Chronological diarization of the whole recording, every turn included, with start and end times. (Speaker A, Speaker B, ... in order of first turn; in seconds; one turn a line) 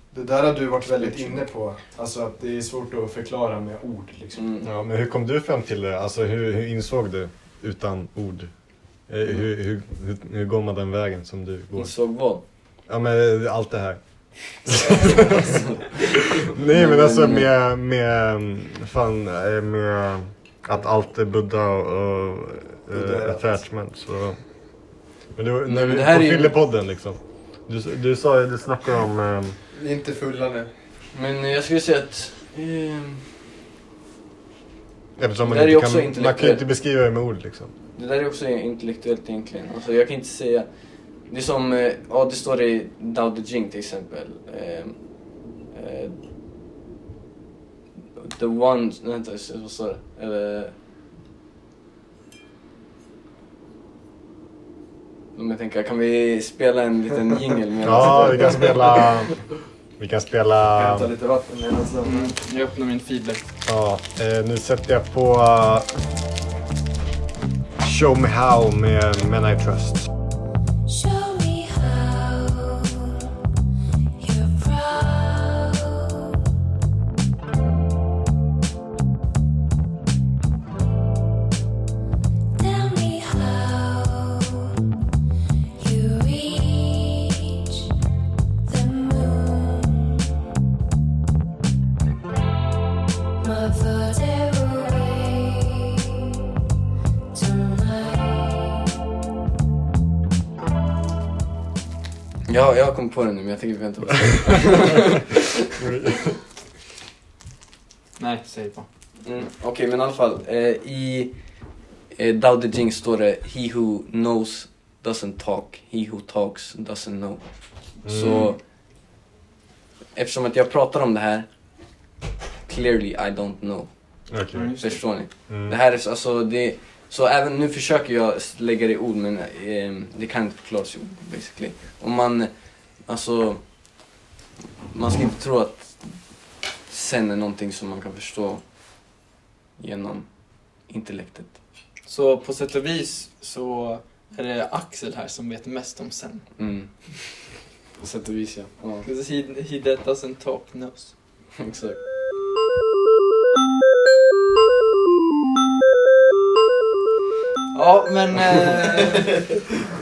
Speaker A: 0.1-4.4
Speaker B: 1.0-1.4
Speaker B: 4.3-4.7
Speaker C: 4.6-8.5
Speaker C: 9.1-12.1
Speaker B: 11.8-12.4
Speaker C: 12.9-24.4
Speaker B: 16.7-17.5
Speaker A: 22.9-23.6
Speaker C: 25.4-29.6
Speaker B: 25.7-26.6
Speaker A: 29.7-30.7
Speaker B: 31.1-33.2
Speaker C: 35.2-37.7
Speaker B: 35.5-36.6
Speaker B: 38.0-40.7
Speaker B: 41.3-45.0
Speaker B: 45.7-46.2
Speaker B: 48.2-50.7
Speaker B: 55.4-58.8
Speaker C: 57.8-59.3
Speaker C: 60.0-61.1
Speaker A: 60.8-62.3
Speaker D: 62.0-63.4
Speaker C: 63.6-65.9
Speaker C: 67.8-70.1
Speaker E: 70.9-73.3
Speaker E: 74.2-76.4
Speaker E: 82.5-84.8
Speaker E: 85.8-87.9
Speaker E: 88.7-90.3
Speaker E: 93.4-96.2
Speaker E: 97.3-99.0
Speaker B: 102.5-105.5
Speaker C: 105.8-106.4
Speaker D: 108.2-108.9
Speaker B: 109.2-111.3
Speaker B: 112.1-117.4
Speaker C: 118.0-118.5
Speaker B: 118.0-118.6
Speaker B: 120.2-121.5
Speaker B: 122.7-123.9
Speaker C: 124.3-124.8
Speaker D: 124.5-125.0
Speaker B: 124.8-132.5
Speaker C: 125.5-125.8
Speaker B: 133.1-133.6
Speaker B: 134.9-136.2
Speaker B: 136.9-138.6
Speaker B: 139.8-140.3
Speaker B: 140.8-141.6
Speaker D: 142.1-146.5
Speaker B: 146.6-146.9
Speaker B: 148.0-149.1
Speaker D: 149.0-151.1
Speaker B: 151.6-152.0
Speaker D: 157.7-159.4